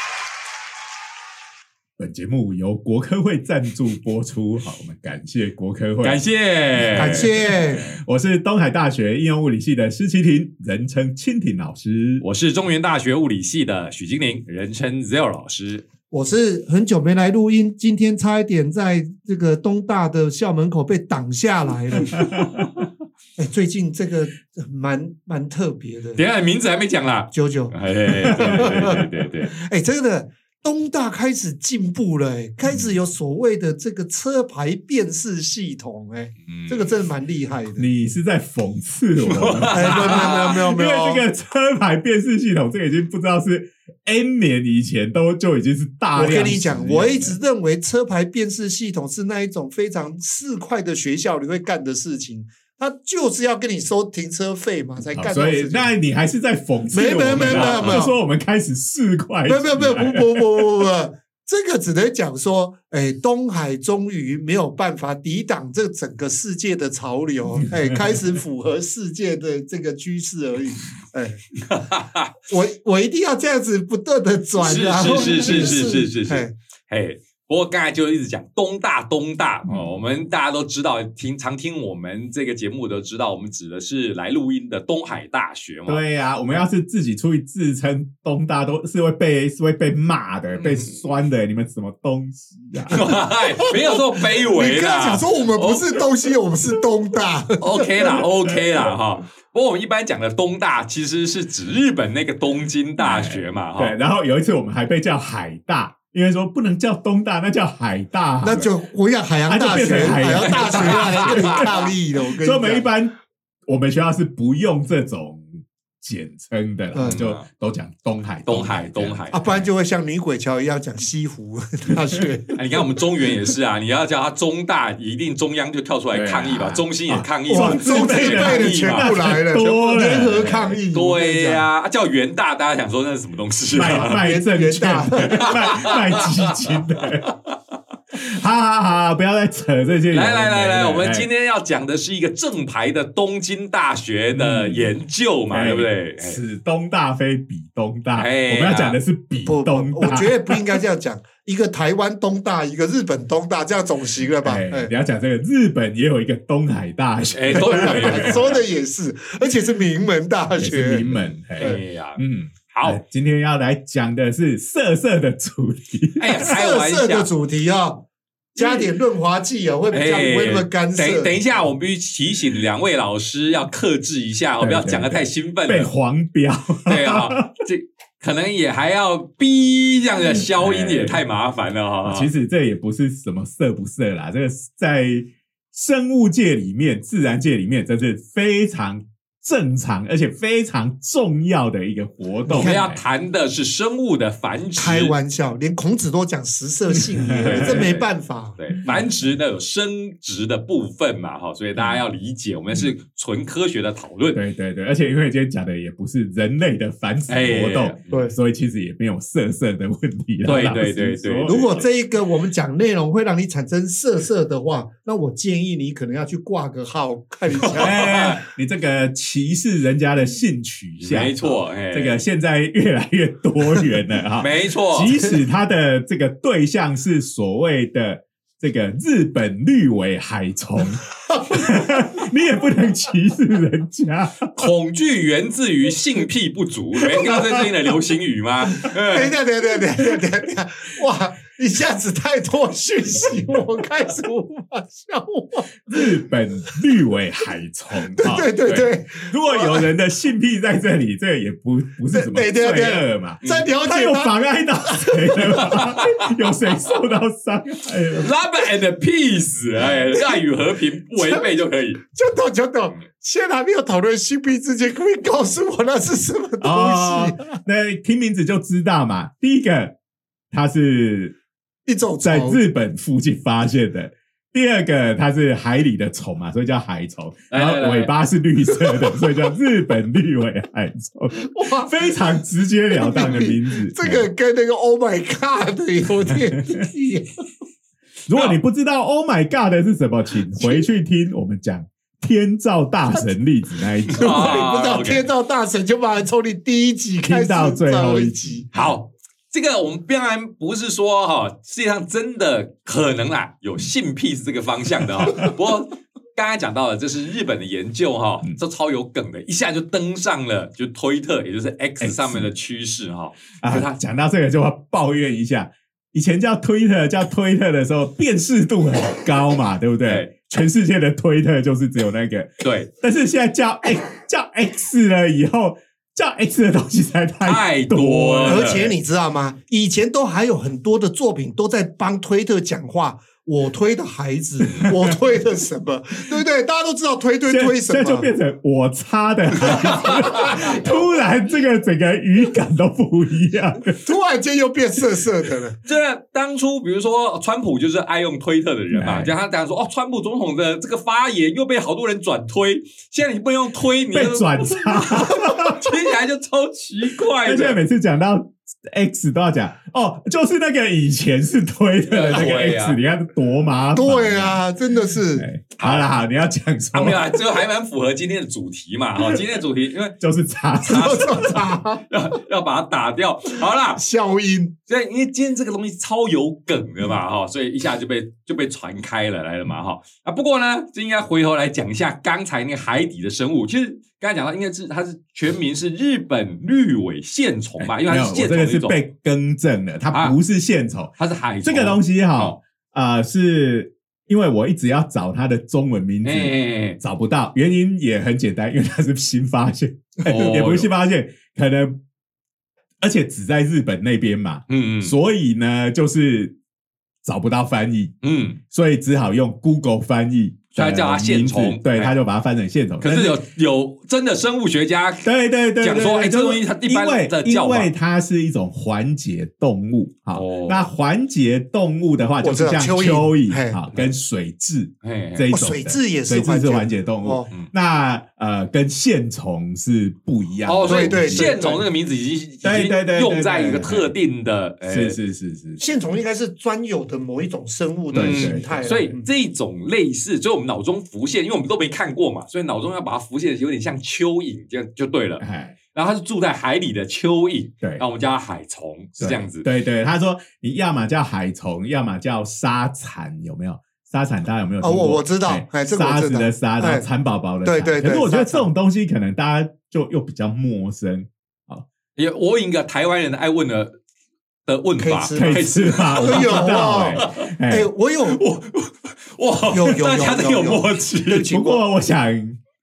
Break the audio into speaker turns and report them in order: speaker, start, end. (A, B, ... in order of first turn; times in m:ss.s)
0:02.0-0:06.2 A
0:06.0-0:08.0 B
0:06.8-0:12.2 A
0:07.0-0:07.9 C
0:12.2-0:15.8 B
0:16.1-0:22.3 C
0:22.1-0:22.6 A
0:23.4-0:26.2 C
0:26.2-0:29.5 B
0:27.3-0:37.9 C
0:28.2-0:29.1 A
0:36.5-0:36.8 B
0:37.8-0:47.4 A
0:39.2-0:40.6 B
0:39.7-0:41.2 C
0:46.1-0:55.9 C
0:55.1-1:00.9 A
0:56.9-0:58.1 C
0:57.3-0:58.0 B
0:59.5-1:11.4 C
1:07.6-1:08.4 A
1:11.7-1:12.3 B
1:12.4-1:16.5 C
1:14.6-1:26.0 B
1:15.2-1:15.6 A
1:19.6-1:19.9 A
1:25.9-1:33.1 A
1:30.5-1:30.9 B
1:32.9-1:36.0 B
1:33.6-1:38.2 C
1:37.6-1:43.9 B
1:43.0-1:48.7 A
1:48.4-1:52.9 C
1:49.4-1:51.9 A
1:50.3-1:51.8 B
1:52.4-1:53.1 A
1:53.6-1:59.7 A
1:56.9-1:57.2 C
1:57.0-1:57.4 B
1:58.4-1:59.4 B
1:59.3-2:02.6 C
2:02.6-2:14.2 B
2:06.1-2:10.8 A
2:07.5-2:11.6 C
2:13.7-2:17.3 A
2:13.9-2:15.6 C
2:15.4-2:16.8 B
2:18.1-2:21.3 A
2:20.1-2:26.4 B
2:24.3-2:24.9 A
2:25.5-2:30.8 A
2:28.1-2:29.0 B
2:29.4-2:34.9 C
2:34.4-2:38.6 A
2:37.3-2:38.6 B
2:37.5-2:41.0 C
2:40.6-2:46.5 A
2:41.0-2:43.0 B
2:46.2-2:47.3 B
2:46.4-2:48.0 C
2:48.6-2:51.3 C
2:48.6-2:48.8 B
2:49.9-2:55.9 B
2:54.6-2:57.5 A
2:56.9-3:02.3 B
3:00.3-3:01.2 A
3:02.0-3:13.0 A
3:12.5-3:12.8 C
3:12.5-3:15.1 B
3:14.8-3:18.6 C
3:17.2-3:17.9 A
3:17.4-3:18.0 B
3:18.6-3:24.4 B
3:21.8-3:22.0 A
3:24.3-3:31.8 A
3:27.3-3:28.2 B
3:28.1-3:28.3 C
3:30.4-3:31.8 B
3:31.4-3:38.3 C
3:37.6-3:38.4 B
3:37.8-3:54.7 A
3:41.0-3:42.2 B
3:44.4-3:45.1 B
3:45.1-3:45.4 C
3:51.3-3:52.0 C
3:54.6-3:59.3 B
3:57.2-3:57.6 A
3:58.7-4:06.0 C
4:05.9-4:18.3 A
4:08.1-4:09.8 C
4:12.1-4:15.7 C
4:15.6-4:16.2 B
4:18.2-4:22.0 B
4:21.2-4:21.4 C
4:22.0-4:27.6 C
4:26.6-4:29.9 A
4:30.5-4:31.4 A
4:31.8-4:32.6 C
4:32.2-4:44.3 A
4:37.5-4:38.1 B
4:41.4-4:42.4 C
4:42.9-4:47.3 C
4:48.3-4:54.6 A
4:48.3-4:48.6 B
4:54.1-4:55.3 B
4:54.1-4:58.6 C
4:57.2-4:58.6 A
4:58.7-5:14.0 B
5:12.0-5:12.5 A
5:13.6-5:28.8 A
5:22.6-5:22.9 B
5:27.4-5:28.9 B
5:28.4-5:38.3 C
5:37.5-5:44.1 A
5:39.5-5:41.0 C
5:39.7-5:40.6 B
5:44.0-5:45.8 C
5:45.8-5:57.8 B
5:48.9-5:49.3 A
5:54.1-5:55.9 A
5:57.4-6:04.6 A
6:02.1-6:03.0 B
6:03.9-6:05.5 C
6:05.3-6:07.4 A
6:05.8-6:06.2 B
6:06.9-6:10.1 B
6:10.2-6:11.7 A
6:10.8-6:12.0 C
6:10.9-6:11.6 B
6:12.1-6:14.0 B
6:14.0-6:14.7 C
6:14.9-6:29.0 B
6:27.8-6:31.1 A
6:31.2-6:32.6 B
6:31.6-6:42.0 A
6:36.2-6:37.0 B
6:40.2-6:40.9 B
6:43.0-6:46.5 A
6:44.7-6:45.1 B
6:47.2-6:48.2 A
6:48.2-6:48.6 B
6:48.7-6:53.4 A
6:50.8-6:52.1 B
6:53.0-6:57.9 B
6:55.2-7:11.6 A
7:00.3-7:00.9 B
7:02.4-7:03.8 C
7:05.0-7:05.5 B
7:05.5-7:07.5 C
7:10.6-7:15.2 B
7:10.8-7:11.8 C
7:12.6-7:14.1 A
7:14.9-7:15.8 A
7:15.8-7:19.3 C
7:18.1-7:29.6 B
7:18.1-7:18.9 A
7:25.4-7:25.7 A
7:29.2-7:41.8 A
7:34.8-7:37.0 C
7:37.6-7:38.7 C
7:42.2-7:43.9 B
7:44.6-7:47.5 B
7:45.0-7:48.4 C
7:45.3-7:47.9 A
7:48.2-7:51.6 B
7:49.7-7:51.8 C
7:51.3-7:52.6 A